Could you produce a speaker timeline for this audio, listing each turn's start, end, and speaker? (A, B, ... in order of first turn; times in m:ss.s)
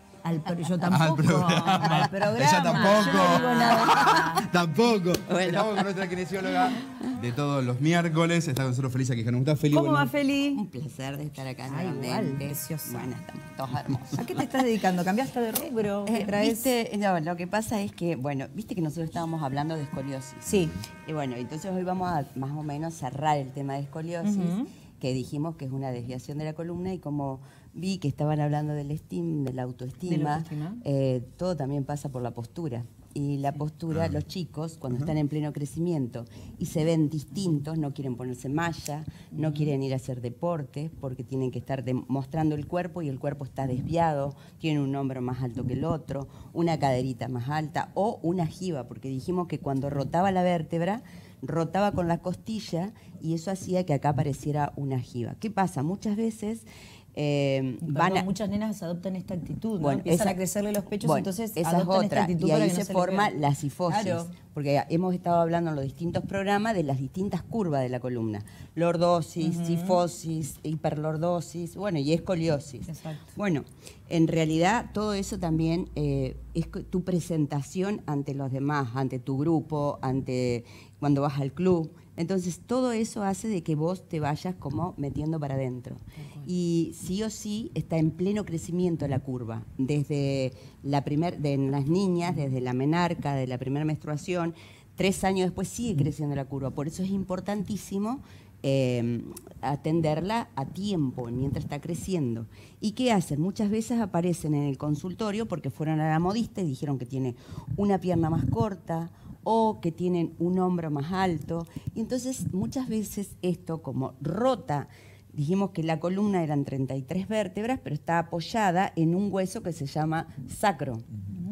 0:00.2-0:04.5 A
0:00.8-0:10.1 B
0:02.8-0:03.7 C
0:09.7-0:10.6 A
0:10.6-0:14.4 C
0:11.7-0:13.1 A
0:14.2-0:16.7 A
0:16.1-0:58.3 C
0:20.4-0:20.8 A
0:24.2-0:24.7 A
0:30.1-0:30.8 A
0:33.9-0:34.2 B
0:39.3-0:39.7 A
0:57.8-1:03.3 A
0:59.8-1:00.4 C
1:01.0-2:01.1 C
1:03.9-1:04.4 A
1:09.4-1:10.0 A
1:12.9-1:13.4 A
1:26.2-1:26.5 A